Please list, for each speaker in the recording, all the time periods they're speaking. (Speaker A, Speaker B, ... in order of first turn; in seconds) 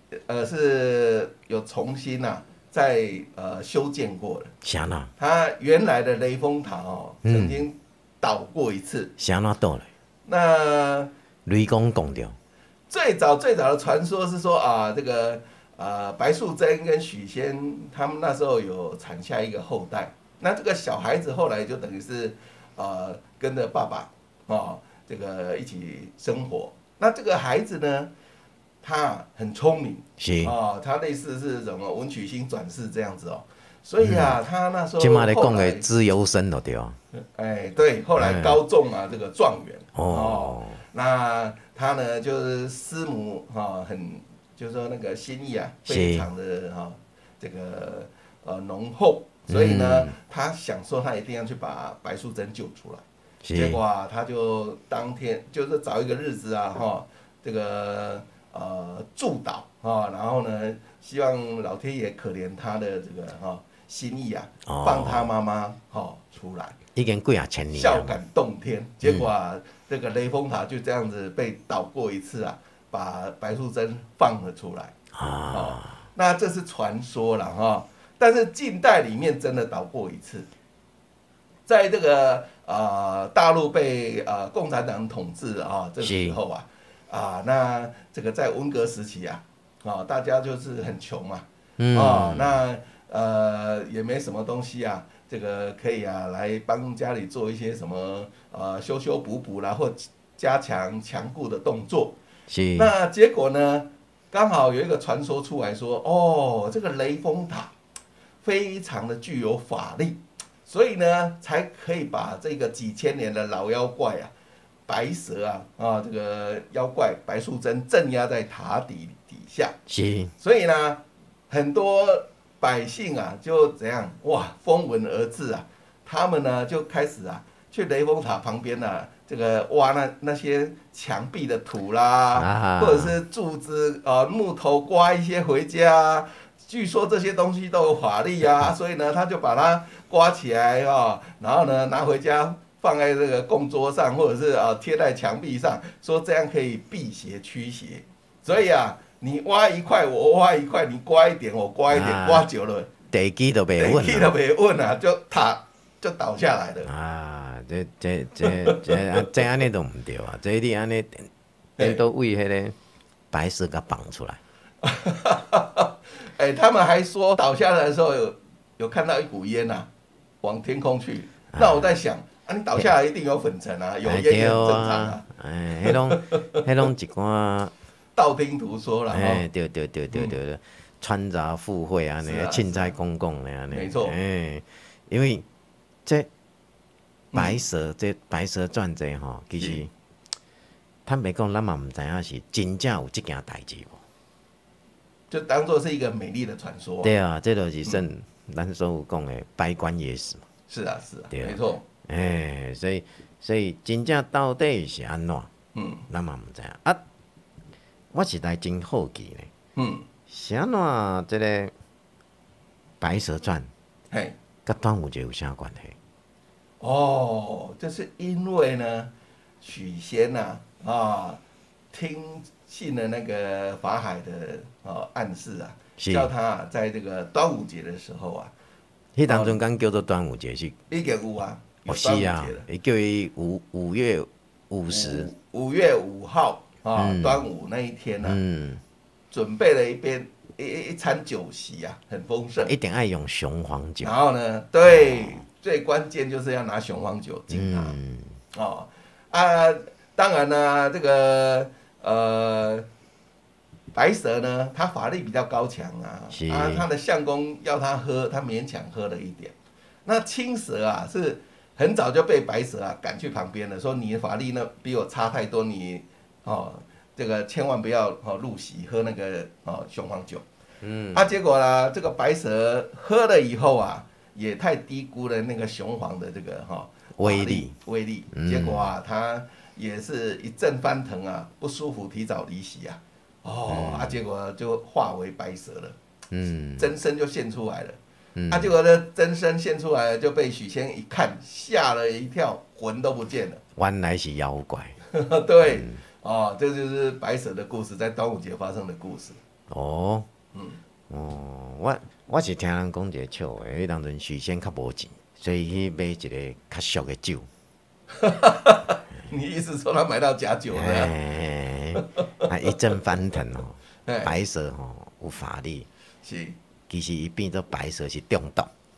Speaker A: 0.3-4.5, 5.2-9.1, 10.2-11.1, 12.9-28.1, 28.8-35.9, 37.1-66.8, 67.7-74.9, 75.5-80.5, 81.7-102.2, 102.8-107.7, 108.4-114.3, 114.9-119.8, 120.4-152.9, 153.8-156.9, 158.4-159.0, 161.8-162.0, 164.8-169.9, 170.4-175.2, 175.8-176.4, 178.2-179.4, 180.1-180.4, 182.2-182.9, 183.7-184.2, 187.3-187.6, 189.6-189.8, 195.3-197.1, 200.7-201.8, 205.7-206.0, 209.8-210.1, 214.1-214.4, 216.8-221.4, 221.9-228.5, 229.3-229.6, 230.9-232.6, 234.9-238.4, 239.3-242.7, 244.0-248.0, 248.5-252.8, 253.9-259.5, 260.0-270.4, 271.1-285.9, 286.8-288.0, 288.5-293.6, 295.1-299.4, 300.5-300.8, 308.2-311.1, 314.1-314.3, 316.2-316.6
Speaker B: 4.6-5.1, 7.2-7.6, 9.2-9.9, 11.4-12.3, 30.2-30.5, 34.0-34.4, 35.0-37.0, 38.2-38.6, 39.9-40.8, 45.9-46.3, 49.5-50.1, 53.4-53.8, 64.7-65.3, 66.9-68.2, 75.1-76.0, 86.0-86.4, 91.8-92.6, 102.5-102.9, 119.9-120.3, 132.3-133.2, 151.9-152.5, 153.1-154.4, 156.8-162.8, 163.3-164.4, 171.5-171.8, 174.0-177.7, 179.1-185.4, 187.3-189.9, 191.1-194.0, 197.0-200.4, 201.3-205.5, 206.1-207.0, 208.1-209.5, 210.3-211.7, 213.0-213.7, 214.7-215.9, 226.0-226.3, 229.1-230.7, 231.8-235.3, 236.9-237.5, 238.2-238.8, 242.6-244.2, 244.8-245.4, 247.5-248.4, 256.3-256.8, 270.8-271.4, 277.2-277.7, 278.3-278.9, 283.7-284.2, 286.3-286.9, 288.4-288.7, 293.8-294.9, 295.6-296.0, 299.7-300.3, 301.1-307.5, 310.7-315.9, 316.9-318.7